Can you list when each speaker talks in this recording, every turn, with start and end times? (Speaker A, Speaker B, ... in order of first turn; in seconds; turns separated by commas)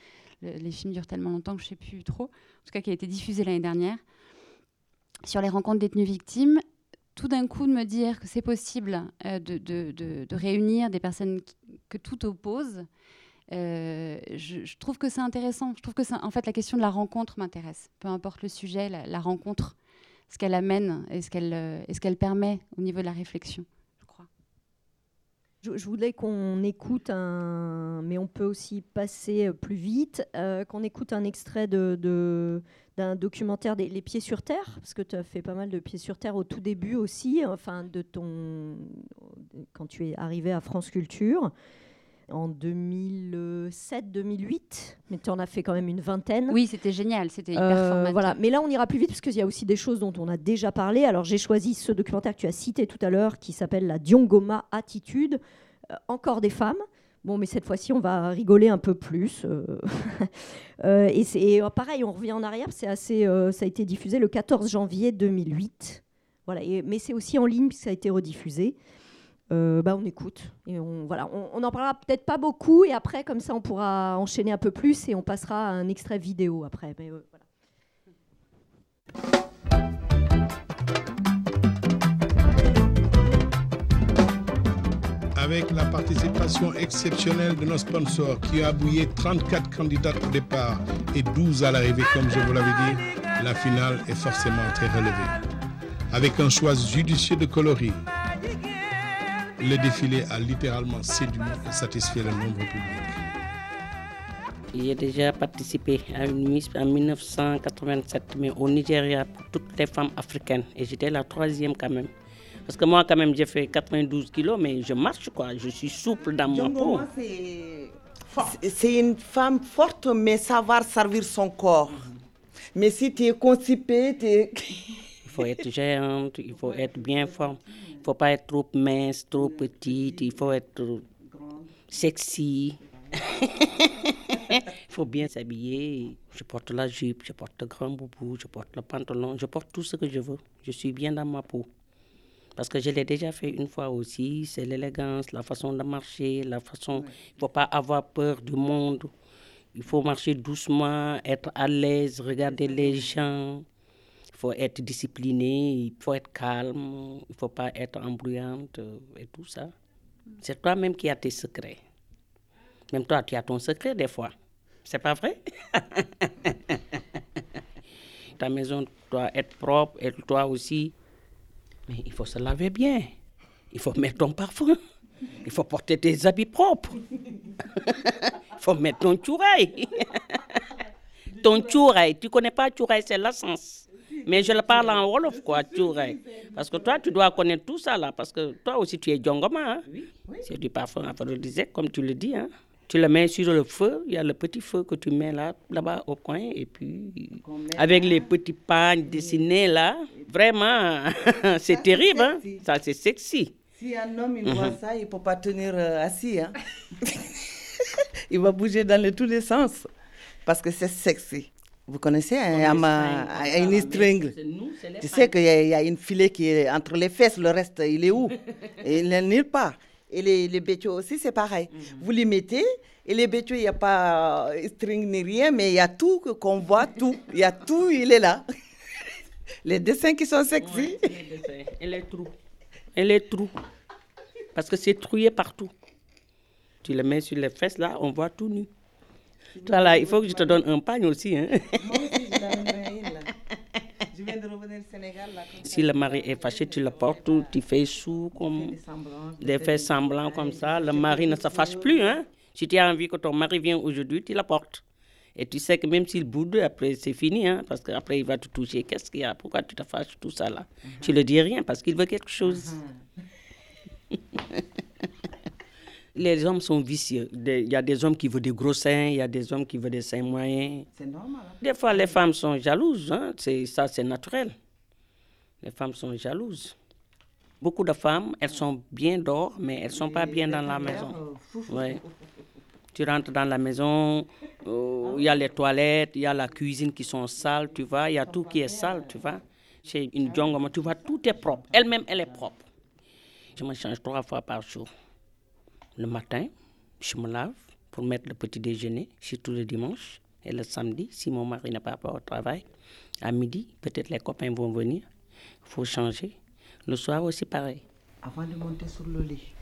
Speaker A: 0.4-4.0, Speaker A: 5.2-6.6, Speaker A: 7.1-12.8, Speaker A: 13.5-19.8, Speaker A: 20.3-24.3, Speaker B: 25.6-41.5, Speaker B: 42.3-46.6, Speaker A: 46.5-48.4, Speaker B: 47.5-55.4, Speaker B: 55.9-68.7, Speaker B: 69.5-77.4, Speaker C: 85.4-95.4, Speaker C: 96.1-98.0, Speaker C: 99.6-103.2, Speaker D: 104.7-112.1, Speaker D: 112.7-117.1, Speaker E: 116.5-122.1, Speaker E: 122.7-124.6, Speaker D: 125.2-131.0, Speaker E: 129.8-130.2, Speaker D: 131.9-141.7, Speaker D: 142.6-149.1, Speaker D: 149.7-153.6, Speaker D: 154.3-159.7, Speaker D: 160.4-161.8, Speaker D: 162.9-164.3, Speaker D: 164.8-166.5, Speaker D: 168.3-170.9, Speaker D: 171.9-173.1, Speaker D: 173.7-174.8, Speaker D: 175.4-177.0, Speaker D: 177.8-180.6, Speaker D: 181.3-189.8, Speaker D: 190.4-203.5, Speaker E: 197.5-198.2, Speaker E: 201.7-202.5, Speaker E: 203.8-206.5, Speaker D: 204.4-204.8, Speaker E: 208.3-209.9, Speaker E: 210.5-214.3, Speaker D: 212.4-215.4, Speaker E: 215.0-218.3, Speaker E: 218.8-228.4, Speaker D: 221.7-222.1, Speaker E: 229.6-231.0, Speaker D: 230.6-232.3, Speaker D: 232.9-233.6, Speaker D: 234.5-235.7, Speaker D: 236.8-238.7, Speaker D: 239.5-242.6, Speaker E: 239.6-240.5, Speaker E: 241.8-243.2, Speaker E: 244.1-247.3, Speaker D: 245.5-248.8, Speaker E: 248.6-251.5, Speaker D: 249.4-254.8, Speaker D: 255.3-262.7, Speaker D: 266.1-270.9, Speaker E: 271.0-271.5, Speaker D: 271.6-274.5, Speaker D: 275.6-276.7, Speaker D: 277.6-282.0, Speaker E: 280.2-281.6, Speaker D: 282.9-292.6, Speaker D: 293.6-294.9, Speaker D: 296.0-302.6, Speaker D: 303.2-305.1, Speaker D: 305.6-307.8, Speaker E: 308.2-309.4